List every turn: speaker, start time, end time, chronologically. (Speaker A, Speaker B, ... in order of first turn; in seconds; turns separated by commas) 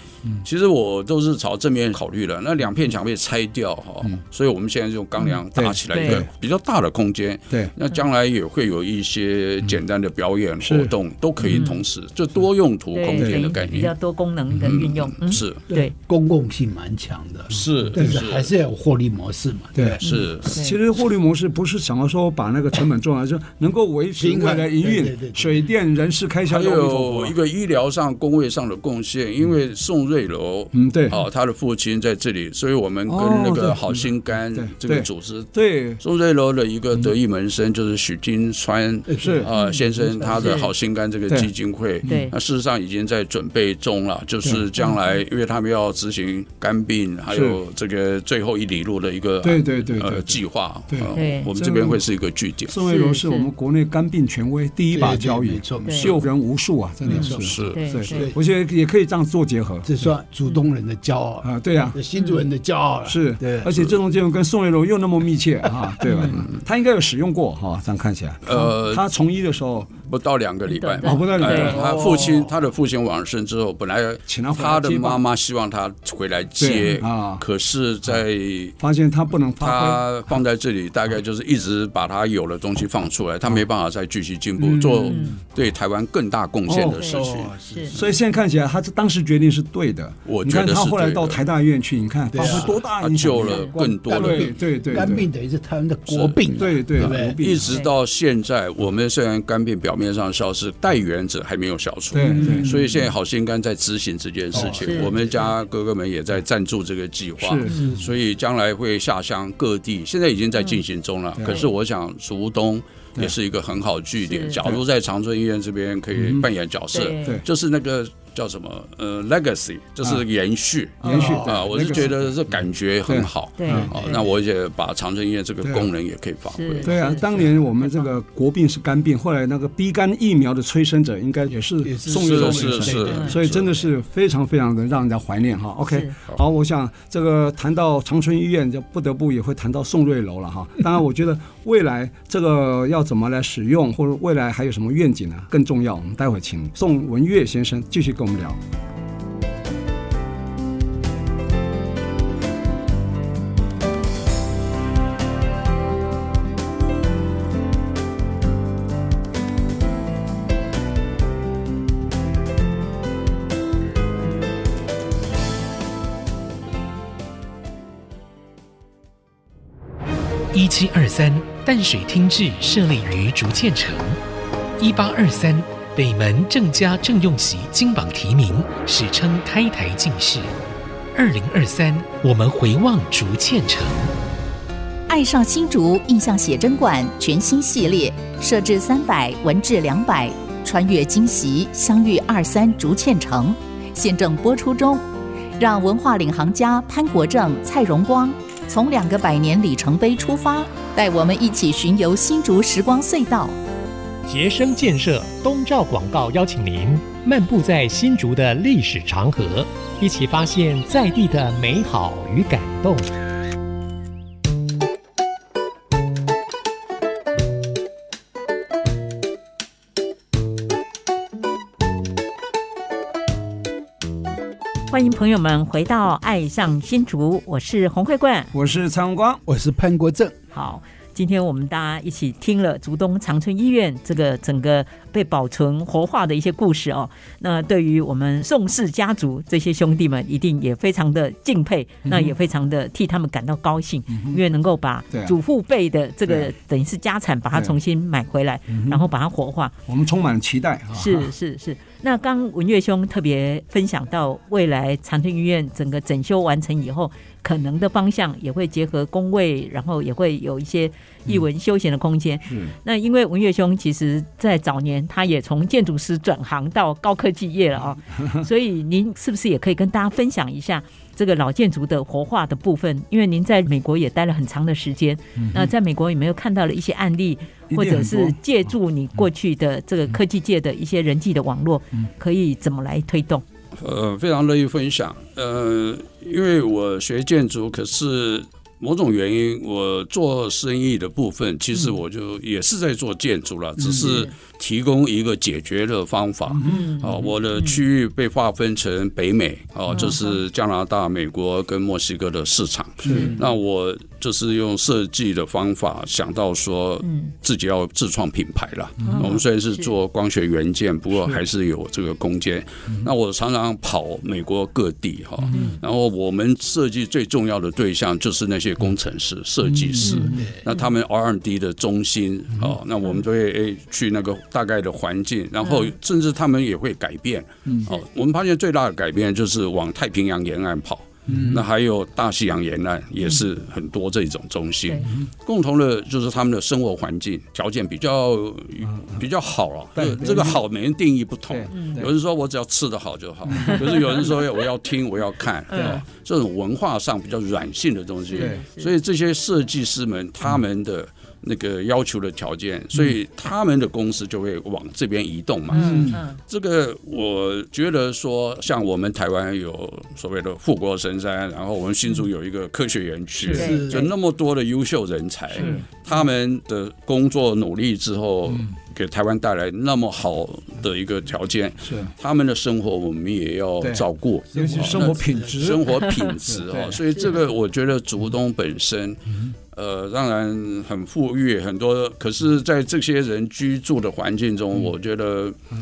Speaker A: 0.4-13.9, Speaker B: 5.5-6.3, Speaker C: 5.9-6.2, Speaker B: 10.6-11.7, Speaker C: 11.5-11.8, Speaker C: 12.9-15.9, Speaker B: 13.1-13.4, Speaker A: 14.6-15.6, Speaker D: 15.7-20.0, Speaker A: 17.5-18.5, Speaker B: 17.5-18.1, Speaker B: 19.8-27.4, Speaker A: 20.0-20.6, Speaker C: 20.0-20.8, Speaker D: 24.2-25.7, Speaker A: 26.5-52.7, Speaker B: 30.7-31.2, Speaker B: 33.1-36.0, Speaker D: 39.1-40.3, Speaker B: 39.2-39.5, Speaker C: 39.5-39.8, Speaker C: 40.4-40.7, Speaker B: 42.0-42.3, Speaker C: 42.0-42.3, Speaker B: 47.3-47.6, Speaker B: 49.4-50.4, Speaker B: 50.9-52.0, Speaker C: 51.1-51.5, Speaker B: 52.7-59.9, Speaker C: 52.8-53.5, Speaker D: 54.9-56.2, Speaker C: 55.8-56.1, Speaker D: 57.1-58.4, Speaker C: 57.1-58.3, Speaker A: 57.4-57.8, Speaker D: 59.9-63.8, Speaker B: 61.4-62.0, Speaker C: 62.1-62.4, Speaker B: 63.1-70.0, Speaker C: 66.0-66.4, Speaker A: 68.5-69.0, Speaker A: 70.0-78.8, Speaker C: 70.7-71.9, Speaker B: 71.0-72.0, Speaker D: 71.7-72.5, Speaker B: 74.3-75.2, Speaker B: 76.6-77.4, Speaker B: 78.8-80.0, Speaker A: 79.6-88.0, Speaker D: 84.6-85.2, Speaker B: 84.8-85.1, Speaker C: 85.1-85.4, Speaker B: 86.7-87.0, Speaker C: 86.9-88.0, Speaker D: 87.1-88.0, Speaker B: 87.9-95.3, Speaker A: 90.3-91.4, Speaker D: 92.3-92.8, Speaker A: 92.4-94.6, Speaker C: 93.4-93.7, Speaker D: 93.7-97.4, Speaker A: 96.1-127.5, Speaker B: 96.6-97.8, Speaker B: 102.1-102.7, Speaker D: 102.2-103.0, Speaker D: 104.5-105.4, Speaker C: 104.8-105.1, Speaker B: 107.4-107.8, Speaker C: 107.7-107.9, Speaker D: 107.7-108.0, Speaker C: 114.2-114.6, Speaker B: 116.2-116.5, Speaker C: 116.9-117.4, Speaker C: 121.0-121.5, Speaker B: 121.0-122.3, Speaker D: 121.1-122.1, Speaker B: 123.1-124.0, Speaker C: 123.6-124.0, Speaker B: 125.6-125.9, Speaker C: 126.5-127.3, Speaker B: 126.8-148.6, Speaker C: 127.8-128.1, Speaker D: 131.8-133.5, Speaker A: 132.1-133.9, Speaker C: 133.1-133.3, Speaker E: 170.5-174.2, Speaker E: 174.8-180.5, Speaker E: 181.2-184.0, Speaker F: 185.1-195.0, Speaker F: 195.6-203.6, Speaker G: 204.3-213.2, Speaker C: 224.9-228.5, Speaker B: 228.5-229.4, Speaker D: 229.5-230.3, Speaker C: 230.5-249.7, Speaker B: 242.1-242.3, Speaker B: 244.1-244.4, Speaker B: 245.1-245.4, Speaker B: 248.7-249.1, Speaker B: 249.9-251.3, Speaker C: 250.9-283.4, Speaker B: 262.5-262.7, Speaker B: 275.4-275.7, Speaker B: 277.7-278.4, Speaker A: 283.8-385.6, Speaker D: 293.8-294.2, Speaker C: 294.0-294.3, Speaker B: 296.6-296.9, Speaker C: 296.6-297.8, Speaker C: 299.9-300.4, Speaker D: 303.0-303.5, Speaker B: 303.0-303.4, Speaker C: 303.1-303.4, Speaker C: 307.0-307.3, Speaker C: 309.1-309.9, Speaker B: 315.4-315.7, Speaker C: 315.5-315.8, Speaker B: 319.7-320.5, Speaker C: 320.0-320.9, Speaker D: 320.3-320.6, Speaker C: 325.6-325.9, Speaker B: 331.3-331.6, Speaker D: 331.3-331.6, Speaker B: 339.9-340.6, Speaker B: 341.5-342.1, Speaker C: 341.7-342.0, Speaker B: 343.5-343.8, Speaker C: 343.6-344.2, Speaker C: 345.7-346.0, Speaker B: 345.8-346.0, Speaker C: 348.3-348.9, Speaker B: 348.4-348.6, Speaker C: 355.7-356.4, Speaker B: 355.7-356.2, Speaker B: 363.4-363.7, Speaker D: 363.5-364.1, Speaker C: 363.5-364.1, Speaker B: 365.6-365.9, Speaker B: 371.8-372.1, Speaker B: 373.8-375.9, Speaker D: 374.5-375.8, Speaker B: 376.5-377.1